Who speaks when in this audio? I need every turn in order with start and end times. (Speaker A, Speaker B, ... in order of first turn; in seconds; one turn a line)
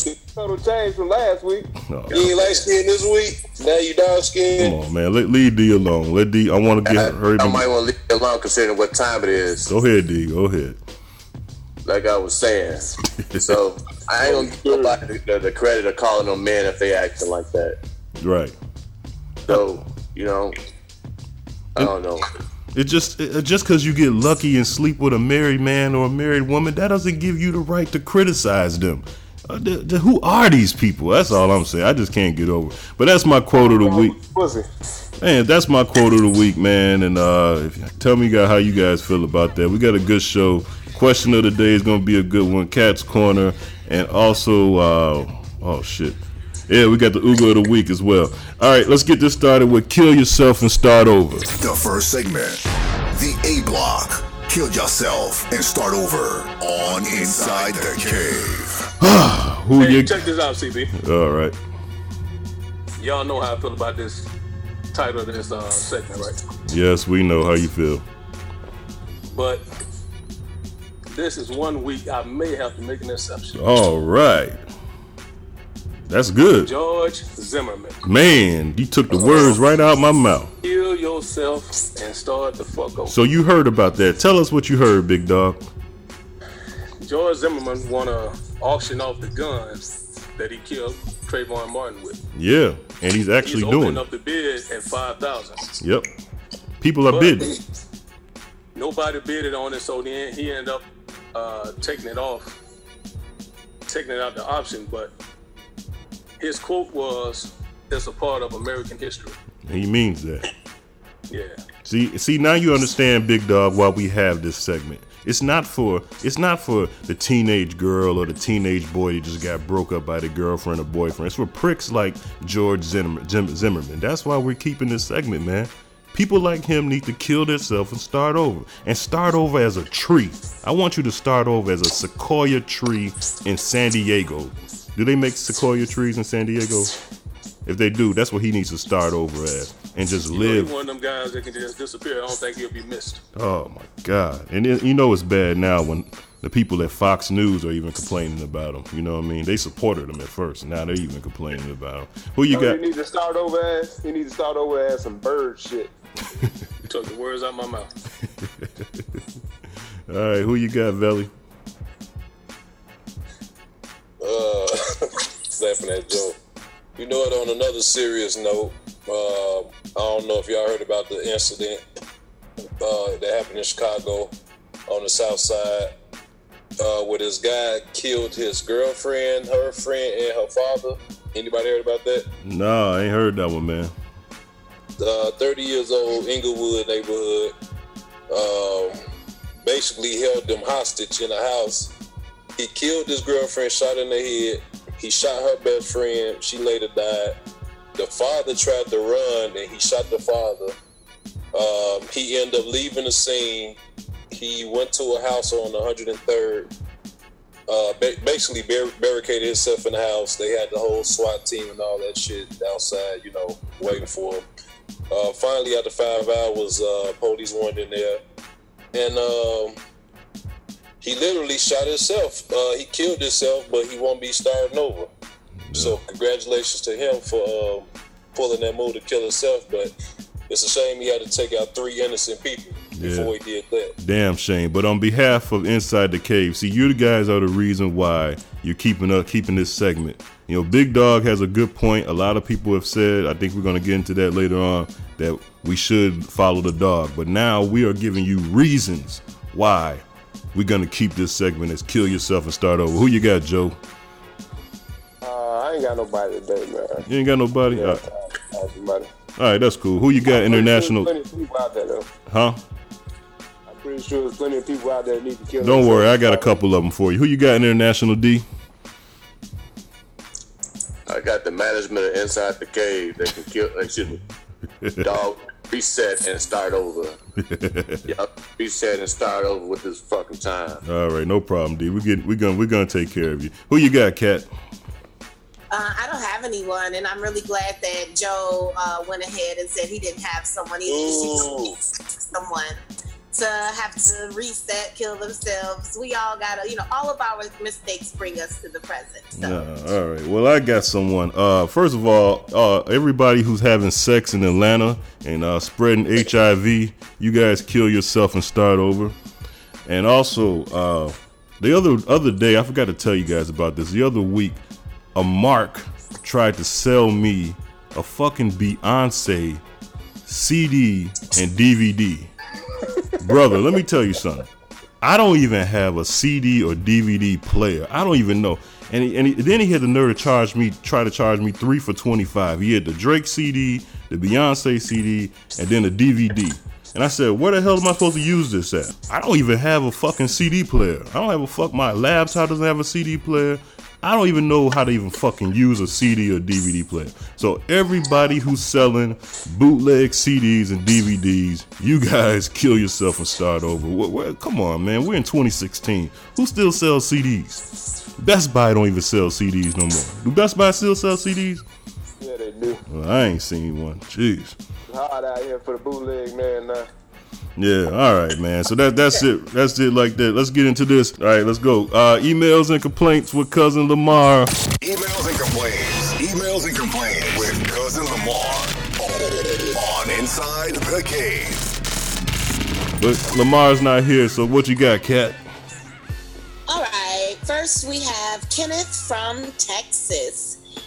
Speaker A: 0.4-1.7
Speaker B: 1.8-2.4
Speaker C: 2.1-4.8
Speaker B: 4.6-7.7
Speaker D: 6.8-9.7
Speaker B: 9.7-10.8
Speaker D: 11.8-17.8
Speaker B: 13.3-13.6
Speaker B: 18.2-18.6
Speaker D: 19.5-20.6
Speaker B: 19.5-19.8
Speaker D: 21.8-22.3
Speaker B: 22.7-34.2
Speaker A: 33.5-34.7
Speaker B: 35.2-51.5
Speaker E: 51.5-58.9
Speaker F: 57.1-58.5
Speaker B: 59.0-60.2
Speaker F: 59.8-60.9
Speaker B: 61.0-61.6
Speaker F: 63.0-64.3
Speaker F: 64.9-66.4
Speaker B: 66.7-68.0
Speaker F: 69.3-69.7
Speaker F: 71.1-73.6
Speaker B: 73.5-74.6
Speaker B: 76.1-76.7
Speaker F: 76.6-78.0
Speaker B: 78.0-80.5
Speaker F: 79.2-79.5
Speaker F: 80.6-83.2
Speaker B: 83.1-85.7
Speaker F: 87.0-89.8
Speaker F: 90.4-92.2
Speaker B: 92.3-94.0
Speaker F: 93.4-95.7
Speaker B: 95.8-96.1
Speaker B: 96.8-97.5
Speaker F: 97.1-97.6
Speaker F: 98.8-102.5
Speaker F: 103.9-105.1
Speaker F: 106.4-109.4
Speaker B: 109.7-110.5
Speaker F: 111.3-111.6
Speaker B: 111.8-136.9
Speaker B: 137.7-140.7
Speaker F: 140.3-143.2
Speaker B: 143.3-152.8
Speaker A: 152.5-155.9
Speaker F: 156.9-157.9
Speaker B: 160.1-161.3
Speaker C: 164.2-164.8
Speaker C: 165.6-166.4
Speaker C: 167.0-171.8
Speaker C: 172.8-174.3
Speaker C: 174.9-175.9
Speaker C: 176.8-182.3
Speaker B: 182.4-183.9
Speaker C: 185.0-187.6
Speaker C: 188.3-189.0
Speaker C: 189.6-191.9
Speaker C: 192.6-197.4
Speaker C: 198.0-200.8
Speaker C: 201.5-203.8
Speaker C: 204.3-206.7
Speaker C: 207.7-214.4
Speaker C: 215.1-218.2
Speaker C: 218.9-219.8
Speaker C: 221.0-225.1
Speaker B: 225.7-226.0
Speaker C: 225.8-229.9
Speaker C: 230.5-233.9
Speaker B: 233.0-233.3
Speaker B: 234.0-253.8
Speaker A: 255.2-257.1
Speaker B: 257.1-258.0
Speaker A: 257.7-259.1
Speaker B: 259.4-261.1
Speaker A: 260.3-262.1
Speaker B: 262.3-262.6
Speaker A: 263.7-266.6
Speaker B: 265.6-268.4
Speaker D: 271.1-274.2
Speaker B: 274.8-275.1
Speaker D: 275.0-277.2
Speaker B: 277.4-278.1
Speaker D: 278.1-280.8
Speaker B: 280.8-284.5
Speaker G: 285.7-291.6
Speaker C: 290.9-291.8
Speaker G: 292.2-292.8
Speaker G: 293.3-299.6
Speaker B: 299.4-309.1
Speaker B: 309.9-314.6
Speaker B: 315.1-319.6
Speaker B: 320.3-322.3
Speaker B: 323.2-324.5
Speaker B: 325.0-357.6
Speaker B: 358.2-361.6
Speaker A: 362.2-362.8
Speaker B: 362.9-364.6
Speaker A: 364.9-366.9
Speaker B: 367.6-374.5
Speaker E: 374.8-381.8
Speaker B: 383.0-385.4
Speaker G: 386.7-390.6